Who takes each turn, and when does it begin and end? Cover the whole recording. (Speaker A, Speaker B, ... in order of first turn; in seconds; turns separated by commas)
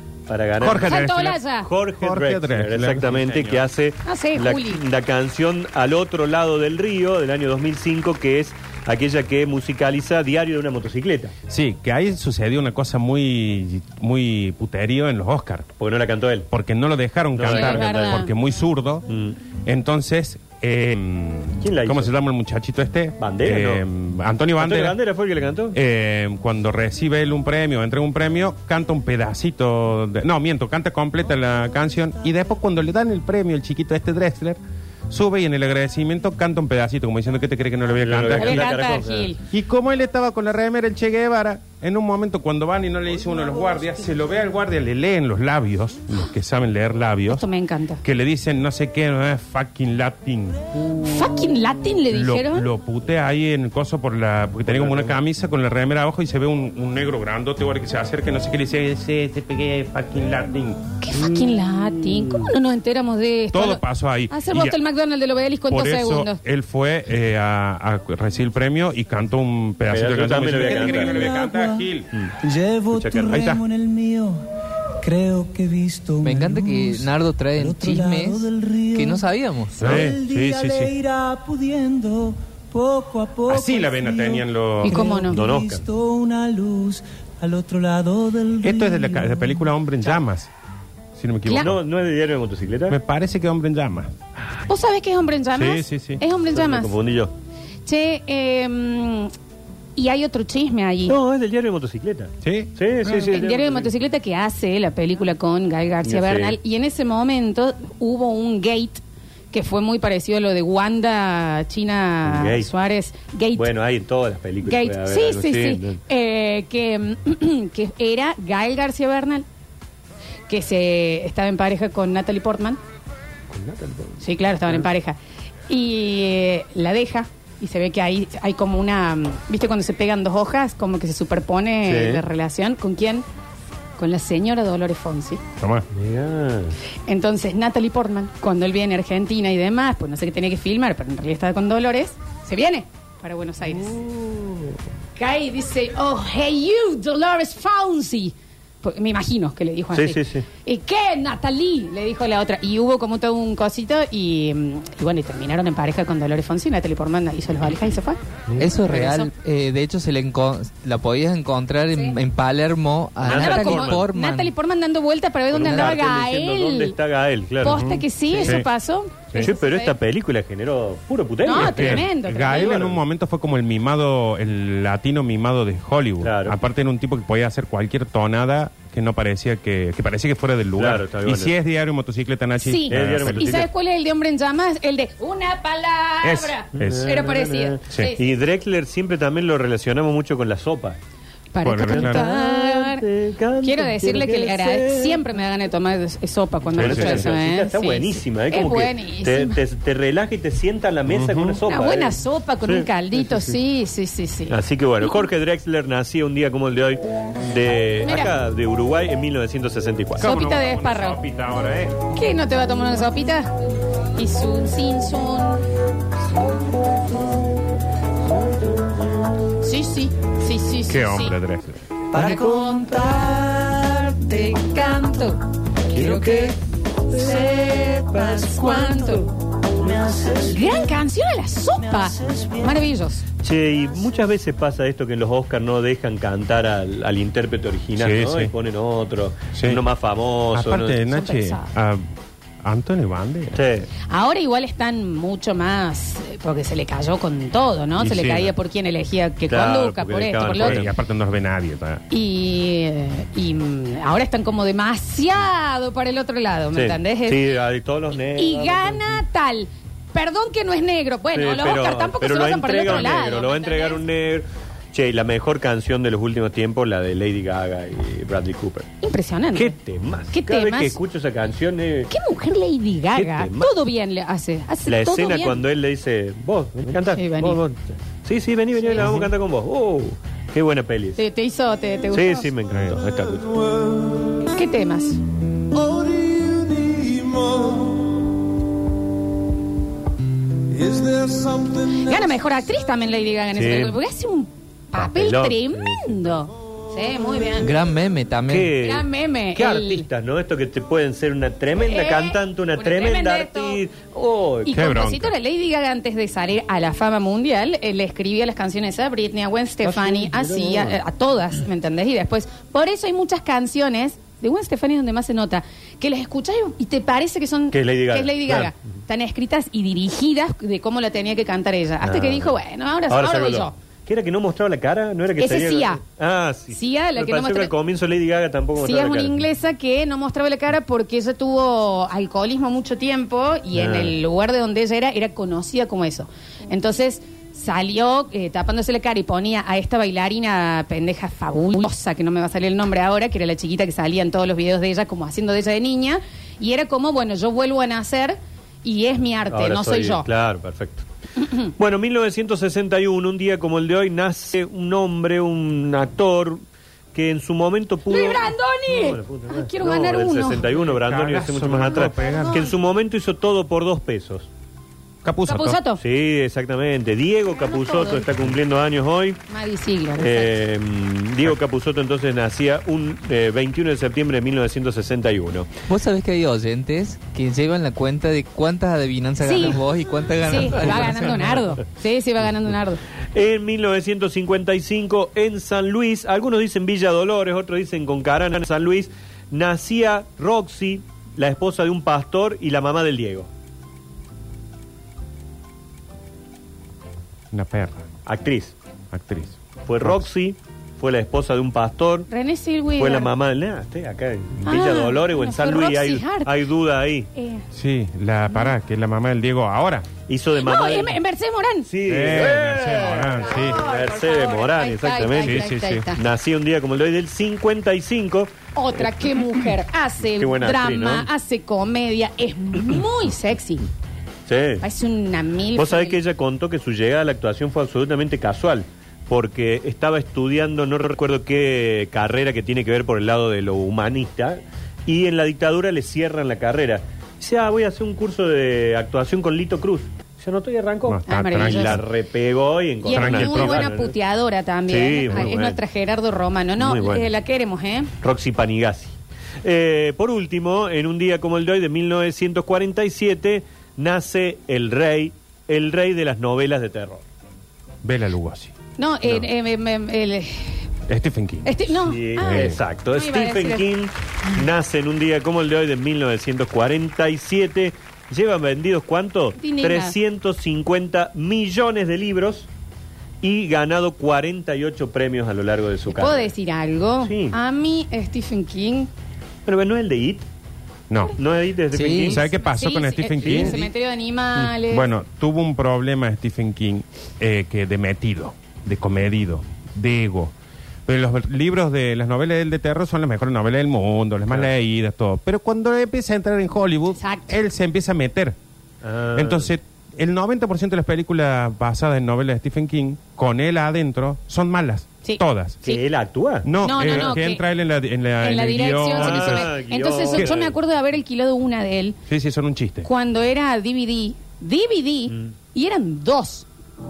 Speaker A: 0.3-1.0, Speaker B: 0.6-1.4, Speaker C: 0.8-1.7, Speaker A: 1.6-11.3, Speaker B: 2.0-3.6, Speaker C: 4.0-4.8, Speaker B: 11.5-15.7, Speaker A: 15.8-16.5, Speaker B: 16.5-19.1, Speaker A: 17.3-18.3, Speaker C: 17.5-18.3, Speaker A: 19.1-19.4, Speaker B: 19.6-25.0, Speaker A: 21.6-22.1, Speaker A: 23.2-23.9, Speaker A: 24.6-25.8, Speaker B: 25.7-38.7, Speaker A: 38.0-39.3, Speaker C: 38.4-39.4, Speaker B: 39.5-47.5, Speaker C: 47.3-48.0, Speaker B: 48.0-50.6, Speaker C: 50.9-52.7, Speaker B: 52.1-60.8, Speaker A: 54.7-55.2, Speaker C: 61.0-66.4, Speaker B: 63.5-64.8, Speaker B: 65.7-72.1, Speaker A: 69.9-71.3, Speaker D: 70.6-71.9, Speaker D: 72.4-74.4, Speaker A: 72.9-73.5, Speaker B: 73.3-73.6, Speaker D: 75.0-89.6, Speaker E: 76.2-79.9, Speaker B: 79.8-80.9, Speaker B: 83.5-85.0, Speaker C: 84.8-85.4, Speaker A: 85.3-85.9, Speaker B: 88.6-90.5, Speaker B: 91.2-91.8, Speaker C: 91.5-91.7, Speaker A: 91.6-93.0, Speaker B: 92.9-94.1, Speaker C: 94.7-96.9, Speaker B: 95.6-96.2, Speaker A: 96.5-97.3, Speaker C: 97.8-99.3, Speaker C: 100.0-101.2, Speaker A: 101.1-103.9, Speaker B: 102.4-102.8, Speaker C: 103.1-113.7, Speaker A: 106.0-106.6, Speaker A: 112.2-112.7, Speaker A: 113.5-116.0, Speaker C: 114.6-119.4, Speaker C: 120.5-122.8, Speaker A: 123.5-124.9, Speaker C: 124.2-125.2, Speaker C: 125.7-133.2, Speaker A: 131.8-132.2, Speaker C: 134.0-135.4, Speaker B: 135.6-135.9, Speaker A: 135.9-136.8, Speaker C: 137.1-144.0, Speaker A: 144.0-144.6, Speaker C: 145.1-159.3, Speaker A: 149.9-150.4, Speaker E: 158.6-164.5, Speaker C: 161.9-162.2, Speaker A: 163.2-164.1, Speaker C: 163.2-166.9, Speaker A: 165.5-167.8, Speaker C: 167.6-169.9, Speaker B: 167.6-168.7, Speaker A: 168.3-168.6, Speaker A: 169.4-173.0, Speaker C: 171.4-172.8, Speaker B: 171.5-183.7, Speaker A: 176.2-176.6, Speaker A: 180.8-181.5, Speaker C: 182.6-188.2, Speaker A: 182.9-183.7, Speaker B: 186.2-187.1, Speaker A: 186.8-191.0, Speaker C: 191.5-193.0, Speaker B: 191.6-192.3, Speaker A: 191.9-195.2, Speaker C: 193.6-199.6, Speaker B: 196.7-197.3, Speaker A: 196.8-202.9, Speaker B: 201.1-201.6, Speaker C: 201.6-205.2, Speaker A: 204.5-210.3, Speaker C: 208.0-208.3, Speaker B: 210.2-212.0, Speaker C: 210.2-211.2, Speaker C: 212.1-213.5, Speaker C: 214.1-215.6, Speaker C: 219.6-221.3, Speaker B: 220.9-221.8, Speaker D: 222.1-224.5, Speaker C: 222.2-226.5, Speaker D: 225.9-226.5, Speaker C: 227.1-233.2, Speaker D: 228.1-228.9, Speaker D: 229.8-230.8, Speaker D: 232.0-232.5, Speaker A: 233.4-241.0, Speaker B: 237.9-238.5, Speaker B: 239.5-239.8, Speaker B: 240.5-242.0, Speaker C: 241.0-241.7, Speaker B: 242.6-243.6, Speaker A: 243.5-243.9, Speaker C: 244.1-250.9, Speaker A: 248.0-248.5, Speaker A: 249.5-250.9, Speaker B: 250.6-252.0, Speaker C: 252.1-257.4, Speaker A: 256.7-259.2, Speaker C: 258.4-264.0, Speaker A: 261.3-268.9, Speaker C: 269.0-269.8, Speaker A: 269.5-272.1, Speaker C: 270.3-271.0, Speaker C: 272.1-275.6, Speaker A: 273.1-273.7, Speaker A: 274.9-281.2, Speaker C: 277.1-277.6, Speaker C: 278.8-279.2, Speaker C: 281.1-282.5, Speaker A: 282.1-283.8, Speaker B: 282.7-283.0, Speaker C: 284.4-285.2, Speaker D: 286.0-287.8, Speaker D: 290.8-291.7, Speaker C: 291.7-297.8, Speaker A: 293.5-294.0, Speaker A: 294.9-296.1, Speaker E: 297.6-298.7, Speaker A: 298.5-304.8, Speaker C: 298.8-300.1, Speaker C: 301.8-303.8, Speaker C: 304.6-323.7, Speaker B: 304.7-305.3, Speaker A: 309.8-311.0, Speaker A: 317.7-318.7, Speaker A: 322.0-322.5, Speaker A: 323.1-329.5, Speaker C: 325.4-326.0, Speaker C: 326.7-327.7, Speaker C: 328.8-350.2, Speaker A: 333.7-334.1, Speaker A: 349.5-351.0, Speaker C: 351.4-351.7, Speaker A: 351.8-356.6, Speaker A: 357.1-364.5, Speaker C: 358.1-360.7, Speaker B: 360.7-362.6, Speaker C: 361.9-362.7, Speaker B: 365.2-365.8, Speaker C: 365.5-366.0, Speaker A: 366.0-369.4, Speaker C: 367.5-368.3, Speaker C: 369.5-370.6, Speaker A: 370.2-375.7, Speaker E: 375.9-381.7, Speaker C: 379.4-379.9, Speaker C: 380.4-383.0, Speaker A: 383.3-393.5, Speaker B: 397.5-398.0, Speaker A: 398.2-398.8, Speaker B: 399.1-400.3, Speaker A: 399.9-402.3, Speaker C: 402.3-403.3, Speaker A: 403.0-407.3, Speaker C: 404.6-406.5, Speaker C: 407.4-407.6, Speaker B: 407.7-410.1, Speaker A: 410.3-411.2, Speaker C: 410.6-411.9, Speaker A: 411.9-419.0, Speaker B: 412.1-413.9, Speaker C: 413.4-416.2, Speaker B: 415.4-416.0, Speaker C: 418.8-423.9, Speaker A: 420.4-421.3, Speaker A: 424.5-424.8, Speaker C: 424.8-426.2, Speaker A: 425.8-444.1, Speaker B: 441.1-442.1, Speaker C: 441.3-442.0, Speaker C: 443.0-448.1, Speaker B: 443.1-443.9, Speaker A: 444.9-445.8, Speaker A: 446.8-447.3, Speaker A: 448.2-457.2, Speaker B: 458.0-458.7, Speaker C: 459.0-460.9, Speaker B: 461.1-462.8, Speaker C: 461.6-463.9, Speaker A: 462.1-472.7, Speaker C: 469.6-470.1, Speaker A: 473.4-476.5, Speaker C: 476.1-479.1, Speaker A: 477.2-477.6, Speaker A: 479.6-480.5, Speaker B: 481.1-481.4, Speaker A: 481.4-482.4, Speaker E: 481.9-482.4, Speaker B: 482.1-483.8, Speaker C: 482.5-485.1, Speaker B: 484.9-490.5, Speaker B: 491.1-498.6, Speaker C: 497.2-497.6, Speaker A: 499.0-499.7, Speaker B: 499.4-505.8, Speaker C: 505.2-506.0, Speaker A: 505.8-507.4, Speaker B: 506.6-509.7, Speaker C: 506.8-507.6, Speaker C: 508.4-512.2, Speaker A: 509.1-510.8, Speaker B: 512.3-513.1, Speaker C: 513.0-516.6, Speaker A: 515.3-515.5